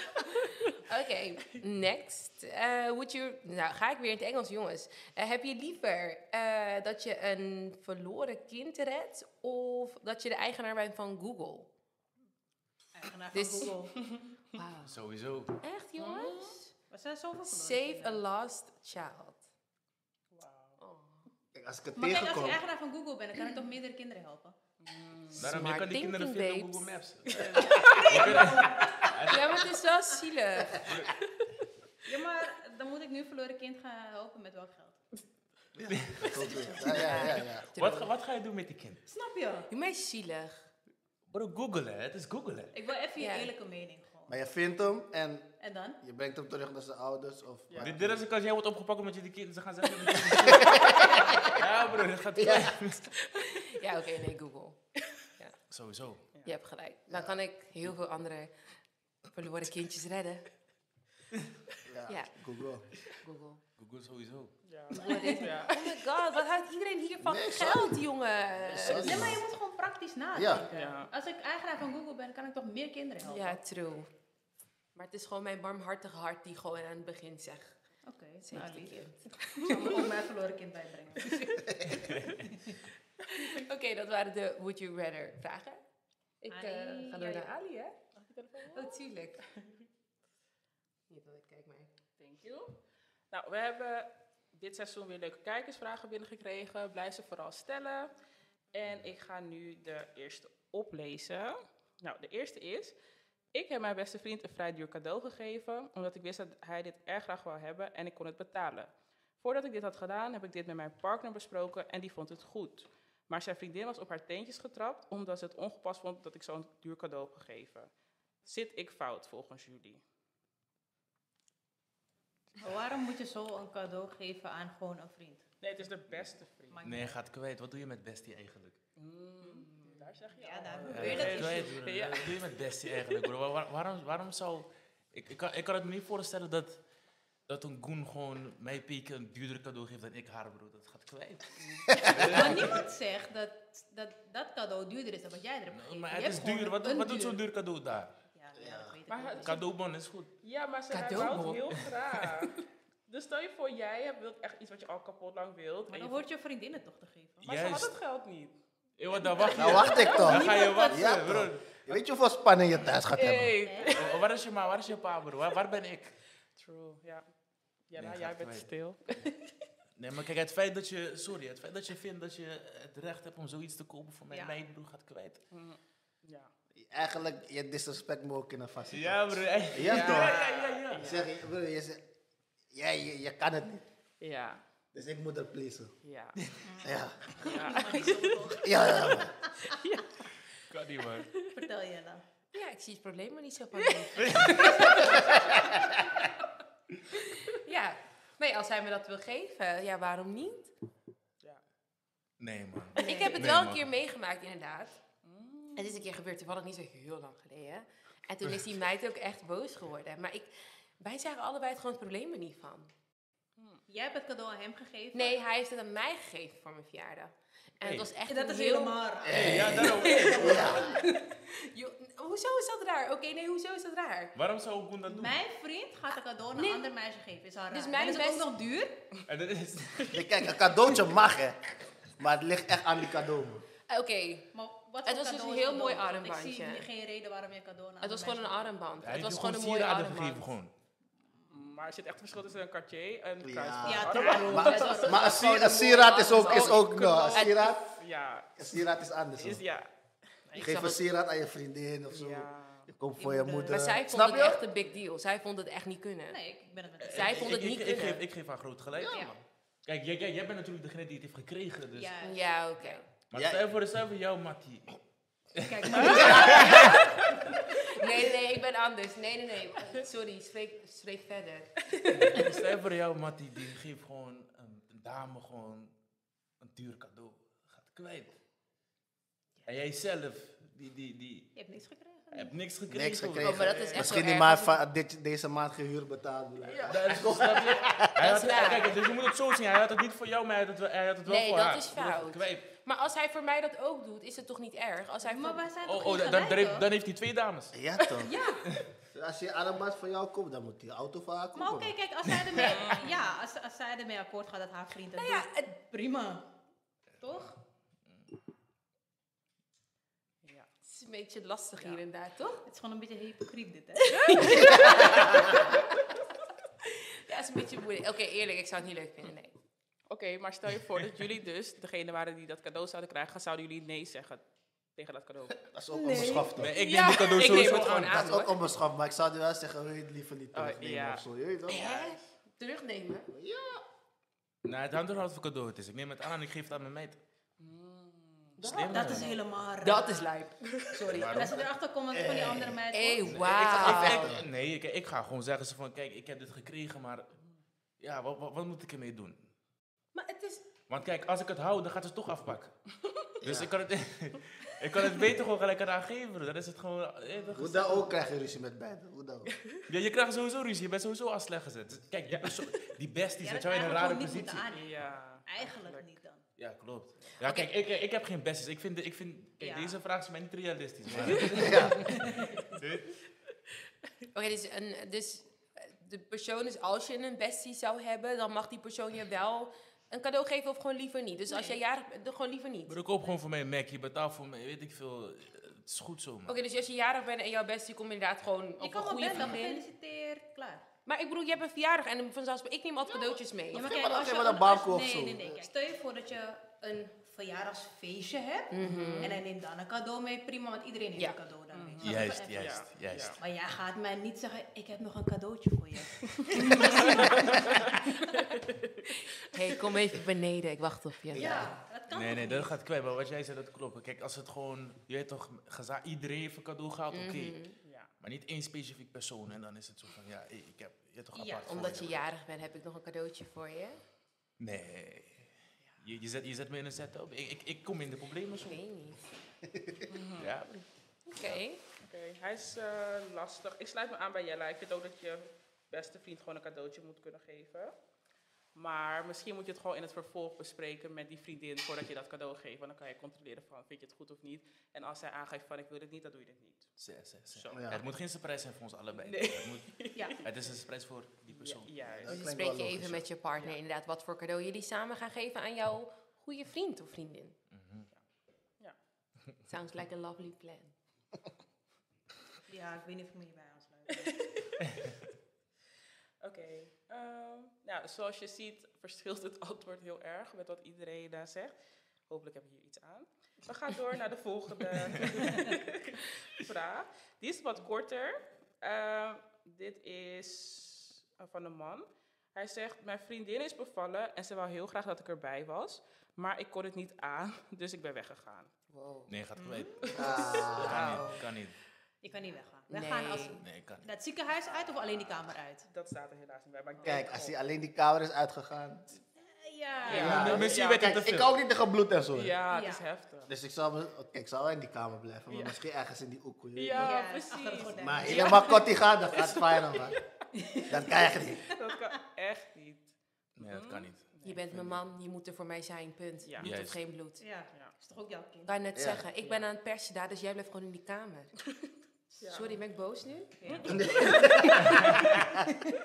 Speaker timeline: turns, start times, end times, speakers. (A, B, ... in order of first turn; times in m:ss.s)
0:00.6-0:11.7 A
0:12.9-0:14.0 B
0:13.3-0:13.7 A
0:14.5-0:15.0 A
0:14.8-0:15.5 C
0:15.6-0:16.7 A
0:16.0-0:16.5 D
0:16.9-0:18.2 B
0:17.4-0:19.4 A
0:20.3-0:20.8 D
0:20.8-0:21.2 A
0:21.5-0:22.6 E
0:22.0-0:24.6 B
0:24.8-0:25.4 D
0:25.3-0:29.7 C
0:25.4-0:28.6 A
0:27.5-0:29.2 B
0:29.1-0:31.0 A
0:32.0-0:35.0 B
0:35.8-0:38.1 E
0:35.8-0:36.6 C
0:36.8-0:38.0 A
0:37.6-0:39.0 C
0:39.1-0:39.7 B
0:39.7-0:40.6 A
0:41.3-0:42.7 C
0:42.7-0:44.4 B
0:43.2-0:43.5 A
0:44.3-0:48.2 E
0:45.6-0:46.0 B
0:47.8-0:53.0 C
0:50.2-0:51.6 E
0:51.0-0:51.5 B
0:52.4-0:52.8 E
0:53.4-0:54.8 A
0:55.7-0:56.2 C
0:56.4-0:58.5 A
0:57.1-0:57.4 E
0:59.3-1:00.4 A
1:01.8-1:02.8 E
1:03.2-1:03.6 A
1:03.8-1:04.5 C
1:04.7-1:05.7 D
1:04.9-1:09.4 A
1:07.2-1:07.9 E
1:08.6-1:09.4 E
1:08.8-1:13.6 B
1:10.3-1:10.6 E
1:10.7-1:11.1 D
1:13.2-1:14.1 A
1:14.9-1:17.8 A
1:18.1-1:19.1 B
1:18.4-1:20.1 A
1:19.6-1:22.8 B
1:21.7-1:22.0 E
1:22.1-1:22.3 C
1:23.4-1:25.8 A
1:26.4-1:27.9 A
1:26.5-1:27.5 B
1:28.2-1:29.0 D
1:28.7-1:29.4 A
1:31.1-1:31.9 A
1:32.2-1:32.8 D
1:33.3-1:38.1 D
1:38.7-1:42.9 D
1:43.5-1:57.9 D
1:58.4-2:00.0 D
2:02.6-2:05.4 B
2:05.6-2:06.8 D
2:06.7-2:07.2 B
2:06.8-2:08.8 C
2:09.0-2:13.2 D
2:09.4-2:11.7 B
2:10.9-2:16.8 C
2:17.5-2:22.8 C
2:21.6-2:21.9 D
2:21.9-2:22.4 E
2:22.2-2:27.4 B
2:25.7-2:28.2 C
2:28.3-2:29.5 B
2:28.5-2:29.0 E
2:29.1-2:29.7 D
2:29.4-2:30.3 C
2:30.4-2:36.2 D
2:30.9-2:31.7 A
2:31.7-2:32.5 C
2:35.9-2:37.4 B
2:37.4-2:38.0 C
2:37.4-2:38.5 D
2:39.0-2:41.9 C
2:39.1-2:40.8 D
2:39.5-2:43.6 E
2:39.8-2:40.9 B
2:43.1-2:44.2 D
2:43.6-2:44.0 B
2:44.0-2:46.1 C
2:46.6-2:47.2 D
2:47.9-2:49.5 D
2:48.0-2:48.7 C
2:50.0-2:55.4 C
2:54.3-2:54.6 B
2:55.5-2:56.5 D
2:56.7-3:00.4 E
2:58.9-3:01.2 C
2:59.8-3:01.3 D
3:01.0-3:02.1 E
3:02.7-3:03.8 E
3:04.2-3:04.6 D
3:04.9-3:05.9 E
3:06.0-3:06.4 D
3:06.6-3:09.2 B
3:06.8-3:07.5 E
3:07.4-3:08.6 D
3:08.6-3:09.3 E
3:09.7-3:10.2 D
3:10.7-3:11.3 C
3:11.4-3:11.6 D
3:11.6-3:12.2 B
3:12.5-3:15.5 A
3:14.2-3:14.9 C
3:14.5-3:15.4 B
3:15.0-3:16.0 E
3:17.1-3:20.7 A
3:22.4-3:23.8 C
3:22.9-3:23.5 B
3:23.0-3:24.9 A
3:25.2-3:26.0 D
3:25.8-3:32.9 A
3:33.6-3:33.8 D
3:33.9-3:35.4 B
3:35.1-3:39.2 A
3:37.8-3:38.1 C
3:38.2-3:41.1 B
3:39.2-3:41.0 E
3:39.3-3:40.8 C
3:39.9-3:44.4 A
3:44.3-3:45.4 C
3:45.0-3:49.0 B
3:46.5-3:46.9 A
3:47.7-3:48.5 A
3:49.3-3:50.2 C
3:50.1-3:53.6 E
3:53.9-3:54.5 A
3:54.5-3:58.7 B
3:55.0-3:56.9 A
3:58.0-4:00.5 A
3:59.0-4:00.7 C
4:01.5-4:05.2 D
4:03.4-4:07.8 E
4:03.8-4:05.2 B
4:04.4-4:07.7 A
4:06.1-4:08.5 D
4:08.6-4:09.6 E
4:09.4-4:09.9 D
4:10.5-4:10.9 D
4:10.5-4:11.0 A
4:10.6-4:14.6 E
4:12.1-4:12.9 D
4:13.2-4:13.8 B
4:13.7-4:16.4 A
4:16.3-4:17.6 B
4:17.0-4:22.1 C
4:17.1-4:18.2 A
4:19.0-4:19.3 B
4:21.9-4:23.0 B
4:22.2-4:23.0 A
4:23.3-4:25.0 C
4:23.3-4:23.6 E
4:25.6-4:27.0 C
4:25.6-4:27.4 B
4:25.9-4:26.8 D
4:26.1-4:26.9 A
4:27.7-4:32.5 A
4:32.1-4:35.9 C
4:36.6-4:38.4 C
4:39.6-4:41.5 C
4:41.5-4:42.5 B
4:42.3-4:43.7 C
4:42.9-4:48.2 E
4:43.4-4:44.8 A
4:43.7-4:44.2 D
4:46.7-4:47.1 D
4:46.8-4:52.6 C
4:48.2-4:49.0 A
4:51.2-4:55.7 A
4:55.3-4:56.9 B
4:55.8-4:57.7 C
4:57.7-4:58.3 E
4:58.0-4:58.3 D
4:58.2-4:58.7 B
4:59.1-5:01.9 E
5:01.5-5:06.5 B
5:02.5-5:02.8 C
5:02.6-5:03.4 D
5:05.1-5:05.7 A
5:07.2-5:07.5 B
5:10.4-5:10.7 D
5:10.8-5:12.6 A
5:12.6-5:15.4 B
5:14.1-5:15.0 D
5:14.2-5:16.1 A
5:16.9-5:19.5 A
5:20.1-5:24.4 D
5:25.0-5:25.6 D
5:25.7-5:26.7 E
5:26.0-5:26.6 B
5:26.6-5:28.3 C
5:26.7-5:28.6 A
5:28.0-5:31.8 E
5:30.5-5:32.1 D
5:31.7-5:33.3 A
5:33.3-5:33.8 E
5:34.6-5:37.2 C
5:37.6-5:38.6 D
5:38.6-5:39.3 C
5:38.8-5:41.3 A
5:38.8-5:40.3 B
5:41.1-5:41.7 C
5:41.3-5:43.5 B
5:42.1-5:42.8 E
5:42.9-5:44.4 A
5:43.2-5:47.3 C
5:43.7-5:44.5 E
5:48.0-5:49.4 C
5:50.1-5:50.6 A
5:50.9-5:52.8 C
5:53.4-5:53.7 E
5:53.4-5:58.1 C
5:57.3-5:57.6 D
5:57.6-5:59.5 E
5:59.9-6:04.6 C
6:02.3-6:02.6 D
6:03.4-6:06.4 B
6:04.7-6:06.1 D
6:06.6-6:13.1 C
6:07.4-6:07.7 A
6:09.6-6:10.0 B
6:11.3-6:12.2 E
6:11.9-6:12.7 B
6:14.3-6:23.0 A
6:22.9-6:26.6 C
6:26.4-6:29.8 A
6:28.8-6:30.8 B
6:31.0-6:33.9 A
6:33.3-6:42.8 B
6:33.7-6:35.7 E
6:38.7-6:39.4 A
6:38.8-6:39.3 D
6:41.7-6:43.4 D
6:42.0-6:43.4 C
6:43.4-6:47.8 B
6:46.4-6:49.3 D
6:49.5-6:51.7 A
6:51.3-6:52.7 B
6:51.4-6:51.7 E
6:52.1-6:57.6 C
6:57.1-6:57.8 A
6:57.8-6:58.1 D
6:58.2-7:02.2 C
7:01.3-7:01.8 B
7:01.7-7:04.0 A
7:04.6-7:08.8 C
7:08.6-7:09.2 A
7:09.6-7:10.0 E
7:10.1-7:10.5 D
7:10.4-7:10.8 C
7:11.3-7:11.8 A
7:12.0-7:17.9 D
7:18.7-7:26.9 D
7:27.0-7:32.1 C
7:27.5-7:27.8 D
7:27.7-7:28.0 E
7:29.1-7:30.5 D
7:30.1-7:30.4 B
7:31.5-7:32.3 D
7:32.0-7:33.2 E
7:32.3-7:37.5 A
7:37.7-7:38.1 C
7:39.7-7:40.9 A
7:42.7-7:44.3 B
7:44.2-7:44.7 D
7:46.4-7:51.7 D
7:52.3-8:08.7 D
8:08.9-8:09.3 A
8:09.3-8:11.8 C
8:09.6-8:10.2 B
8:10.1-8:10.8 D
8:10.1-8:11.2 E
8:10.8-8:11.4 A
8:12.2-8:15.8 B
8:12.9-8:13.6 A
8:13.6-8:14.1 C
8:14.6-8:17.6 D
8:17.0-8:17.2 B
8:17.0-8:19.0 E
8:19.4-8:20.6 B
8:20.0-8:21.1 D
8:20.1-8:21.5 C
8:20.1-8:22.6 E
8:22.3-8:23.5 D
8:22.7-8:23.0 B
8:23.5-8:27.2 E
8:25.5-8:25.8 D
8:26.8-8:30.2 D
8:26.9-8:28.9 B
8:28.0-8:30.2 E
8:30.5-8:31.0 B
8:30.9-8:31.6 E
8:31.7-8:32.2 B
8:31.7-8:34.6 D
8:33.6-8:34.2 C
8:34.4-8:37.4 A
8:36.4-8:36.7 D
8:36.6-8:37.0 C
8:37.4-8:38.7 B
8:38.6-8:41.5 A
8:39.0-8:39.2 E
8:42.4-8:42.7 D
8:42.5-8:43.5 A
8:43.6-8:45.2 B
8:43.6-8:44.1 D
8:43.8-8:45.6 E
8:44.2-8:45.0 A
8:44.8-8:45.3 C